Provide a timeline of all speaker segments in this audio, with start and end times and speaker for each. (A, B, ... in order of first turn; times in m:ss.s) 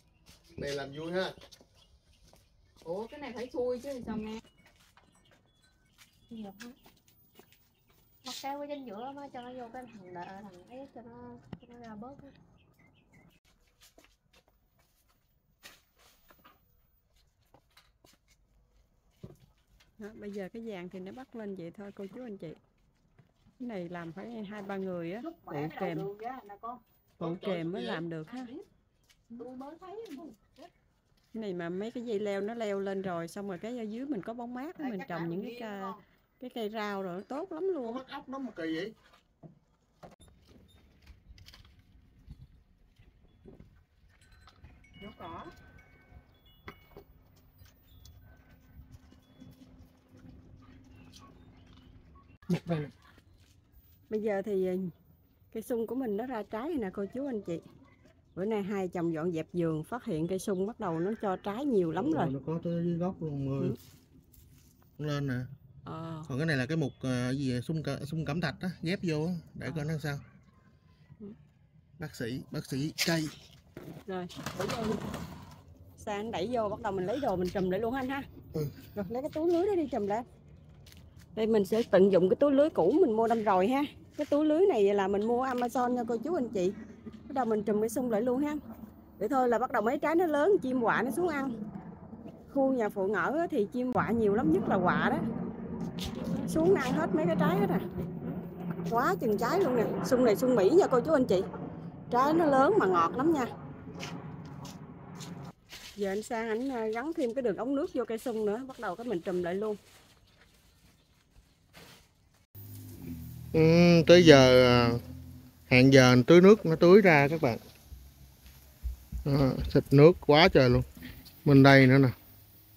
0:00.6-0:01.3 A
0:02.8-0:04.4 B
0:06.3-0:06.7 B
0:08.2-0:12.3 B
0:20.0-0:22.6 C
0:23.6-0:26.1 C
0:25.2-0:26.8 B
0:27.2-0:28.1 A
0:27.2-0:28.5 C
0:28.3-0:28.6 B
0:29.3-0:30.7 B
0:31.3-0:38.0 C
0:34.8-0:36.0 B
0:37.8-0:38.9 A
0:45.0-0:45.5 B
0:52.5-0:52.9 A
0:54.1-0:54.9 C
0:55.5-0:57.6 C
0:58.4-1:02.3 C
1:01.9-1:03.8 A
1:05.0-1:05.5 A
1:05.8-1:06.3 C
1:06.2-1:10.2 A
1:12.0-1:13.4 A
1:14.1-1:14.9 C
1:16.0-1:18.2 C
1:18.9-1:20.2 C
1:21.3-1:26.7 C
1:27.3-1:28.6 C
1:29.2-1:31.5 C
1:32.5-1:35.2 C
1:36.3-1:41.4 C
1:42.1-1:43.5 C
1:46.0-1:49.8 C
1:53.5-1:55.0 A
1:55.7-1:57.6 A
1:59.2-2:00.8 A
2:01.4-2:02.1 A